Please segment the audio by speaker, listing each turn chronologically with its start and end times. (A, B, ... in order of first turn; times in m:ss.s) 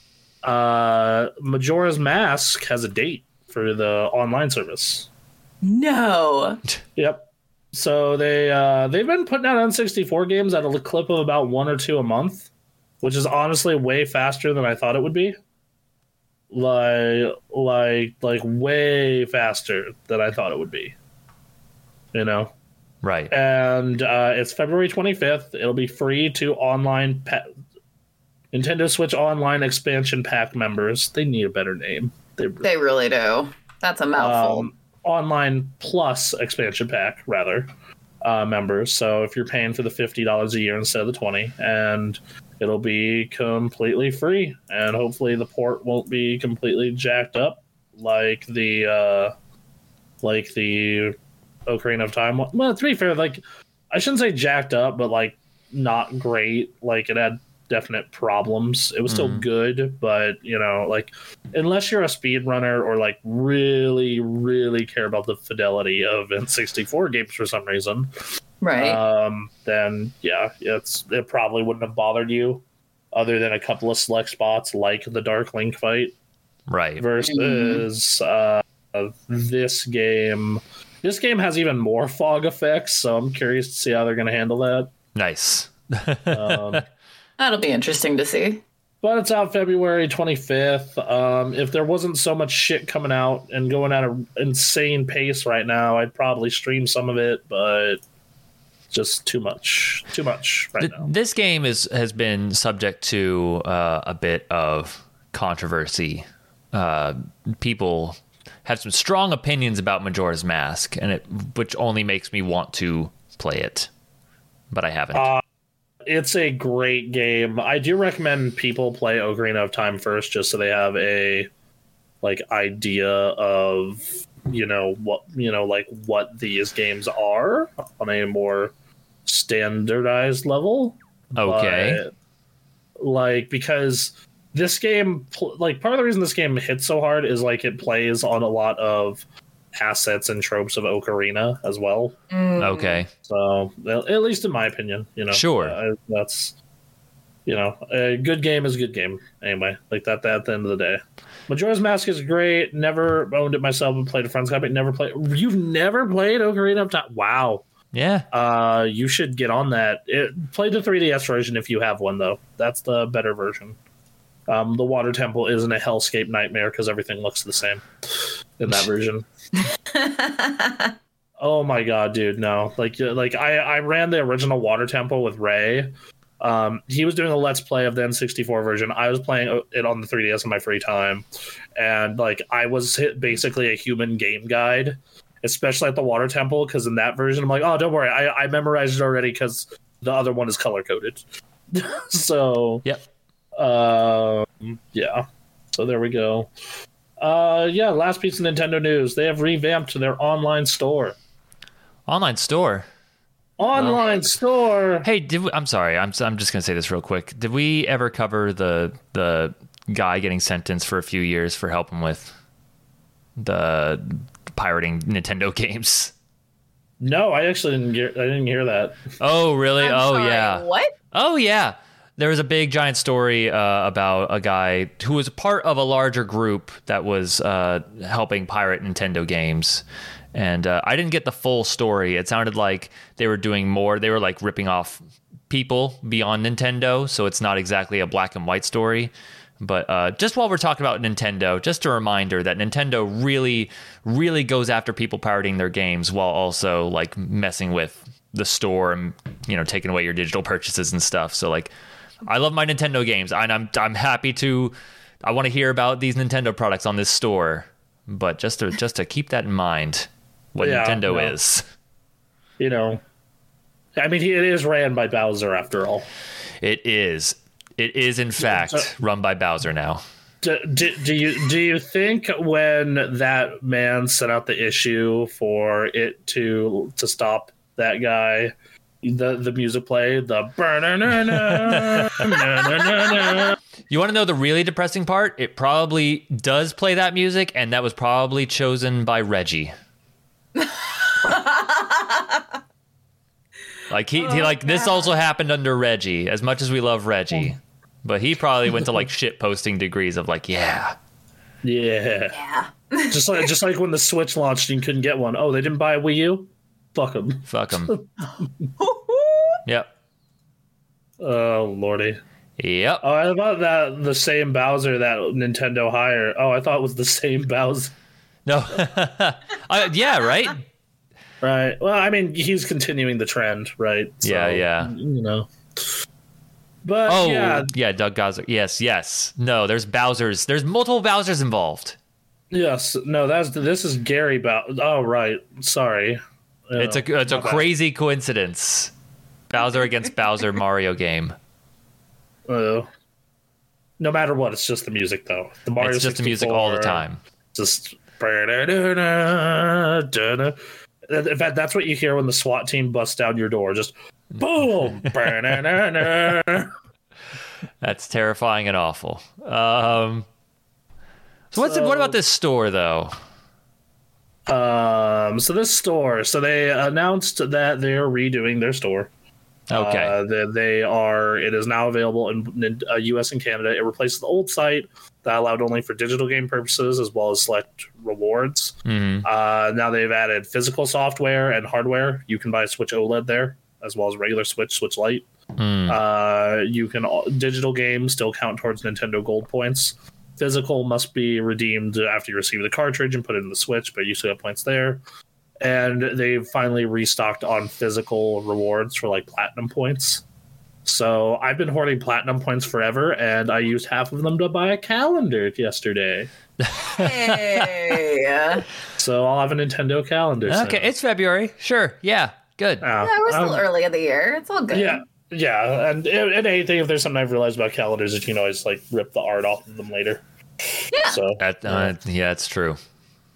0:00.4-0:05.1 A
0:05.6-0:06.6 B
0:07.0-0:12.5 A
0:13.0-0:15.4 A
0:16.5-0:20.9 A
0:22.1-0:22.5 A
0:23.0-0:23.3 C
0:23.3-0:27.5 A
0:28.5-0:32.7 A
0:32.6-0:34.7 B
0:34.1-0:37.7 A
0:38.2-0:49.3 A
0:50.2-0:51.2 A
0:51.7-1:08.1 A
0:59.1-0:59.4 C
1:08.6-1:09.0 B
1:08.8-1:16.1 A
1:16.7-1:17.0 C
1:17.0-1:24.9 A
1:17.2-1:17.8 B
1:25.1-1:26.8 C
1:26.3-1:26.8 A
1:27.4-1:28.6 B
1:29.0-1:38.0 A
1:38.9-1:41.1 A
1:40.8-1:53.9 C
1:54.7-1:55.3 C
1:55.1-1:55.4 A
1:56.0-2:01.5 A
2:02.2-2:08.7 A
2:09.2-2:12.1 A
2:11.3-2:12.0 C
2:13.0-2:22.2 A
2:22.3-2:23.0 B
2:22.6-2:23.1 C
2:23.2-2:26.6 A
2:25.3-2:25.8 C
2:27.4-2:37.6 A
2:37.9-2:38.2 C
2:38.3-2:43.8 A
2:44.5-2:47.8 A
2:48.6-2:49.3 A
2:49.9-2:50.9 B
2:51.4-3:12.8 A
3:13.6-3:16.5 A
3:17.2-3:21.2 A
3:22.1-3:22.8 C
3:23.6-3:25.1 A
3:25.0-3:32.3 C
3:33.4-3:36.1 C
3:37.0-3:39.0 A
3:39.2-4:11.7 C
3:39.8-3:40.9 B
4:12.2-4:21.6 C
4:20.6-4:21.3 A
4:22.6-4:23.0 A
4:24.0-4:26.0 A
4:26.6-4:30.0 C
4:28.4-4:28.9 A
4:30.4-4:43.6 A
4:41.3-4:42.2 C
4:43.9-4:49.7 C
4:50.6-4:52.4 B
4:53.9-5:00.9 C
4:54.2-4:55.1 B
5:01.6-5:02.4 A
5:02.3-5:03.4 B
5:03.1-5:08.4 A
5:07.5-5:07.9 C
5:08.8-5:09.6 B
5:11.2-5:12.2 A
5:12.6-5:13.0 C
5:13.0-5:17.9 A
5:18.4-5:20.6 C
5:21.4-5:26.0 A
5:24.2-5:24.9 C
5:26.8-5:27.7 A
5:27.1-5:32.0 C
5:32.5-5:37.7 A
5:36.8-5:38.9 C
5:39.5-5:41.4 C
5:42.5-5:42.9 A
5:44.0-5:56.7 A
5:45.8-5:47.2 C
5:57.8-6:00.2 C
6:01.5-6:03.1 C
6:01.5-6:02.2 A
6:04.5-6:09.1 A
6:09.7-6:10.2 C
6:09.7-6:25.3 A
6:18.8-6:19.3 C
6:25.6-6:26.0 C
6:25.9-6:35.0 A
6:35.6-6:40.2 A
6:40.8-6:46.3 A
6:46.6-6:48.0 C
6:46.8-6:48.6 B
6:49.0-6:50.9 A
6:50.4-6:52.8 C
6:52.8-6:53.7 A
6:53.0-6:55.0 B
6:54.7-7:00.2 A
7:00.9-7:01.2 B
7:01.0-7:01.9 A
7:01.4-7:02.8 C